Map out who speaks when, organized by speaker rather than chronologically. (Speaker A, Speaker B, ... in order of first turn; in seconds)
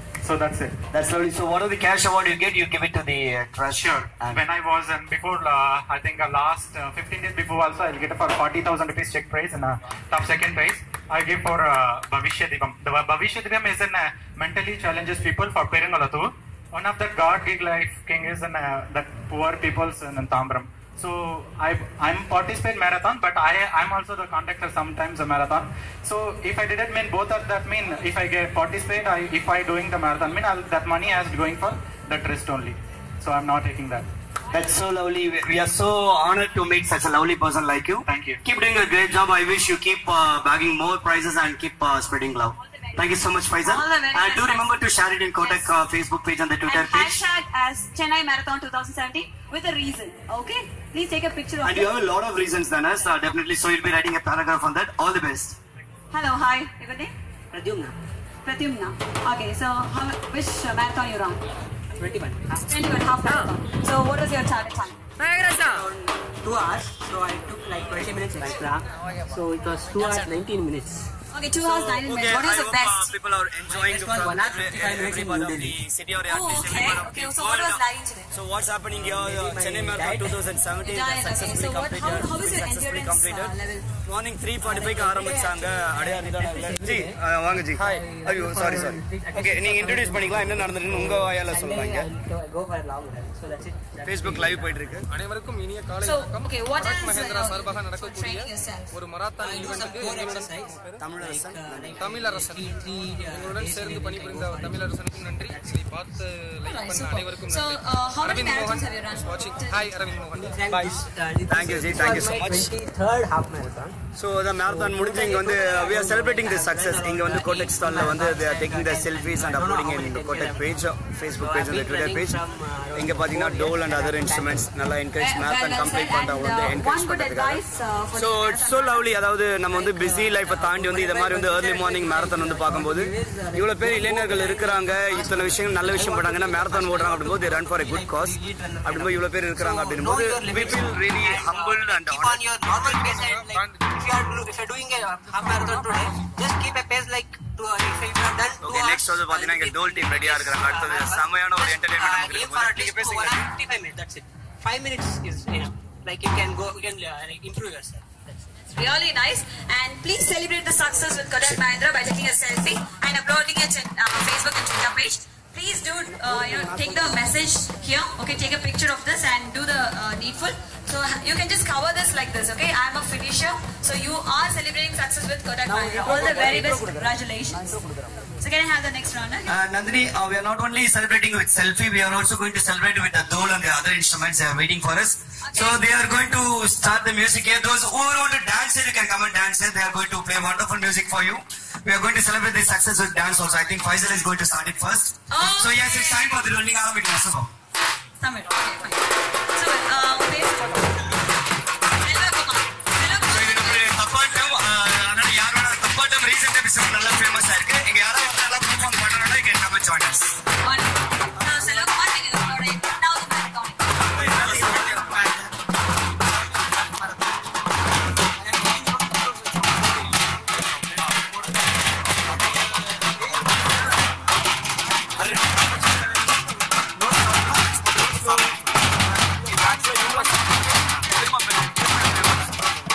Speaker A: 0.2-0.8, 3.8-34.1, 38.1-38.4
Speaker B: 0.9-4.4, 34.5-47.2, 51.6-55.6, 71.6-92.1, 94.0-95.1, 101.0-102.1, 111.5-112.7, 114.1-122.4, 122.9-127.6, 128.1-142.5, 148.6-153.4, 166.2-167.2, 175.7-178.1, 179.5-197.5, 203.3-210.4, 214.2-215.3, 225.2-226.3, 227.0-232.7
Speaker C: 42.8-44.8, 45.4-45.7, 46.7-51.9, 56.1-57.1, 58.4-61.4, 62.5-65.0, 71.3-73.1, 76.3-78.3, 80.8-83.5, 96.0-99.0, 106.6-110.1, 125.2-129.0, 158.7-177.8, 178.4-179.6, 185.4-185.8, 195.3-196.5, 198.2-201.1, 202.0-203.9, 210.6-214.0
Speaker D: 57.5-58.0, 62.0-63.5, 65.2-71.0, 73.7-75.8, 78.9-80.5, 83.4-83.9, 84.6-87.2, 87.9-94.9, 99.4-106.2, 110.3-114.0, 114.6-120.7, 121.3-124.7, 129.7-158.4
Speaker E: 95.2-96.3, 96.8-98.3, 99.1-100.5, 102.0-102.6, 103.5-107.7, 108.2-108.8, 109.4-110.9, 142.8-143.6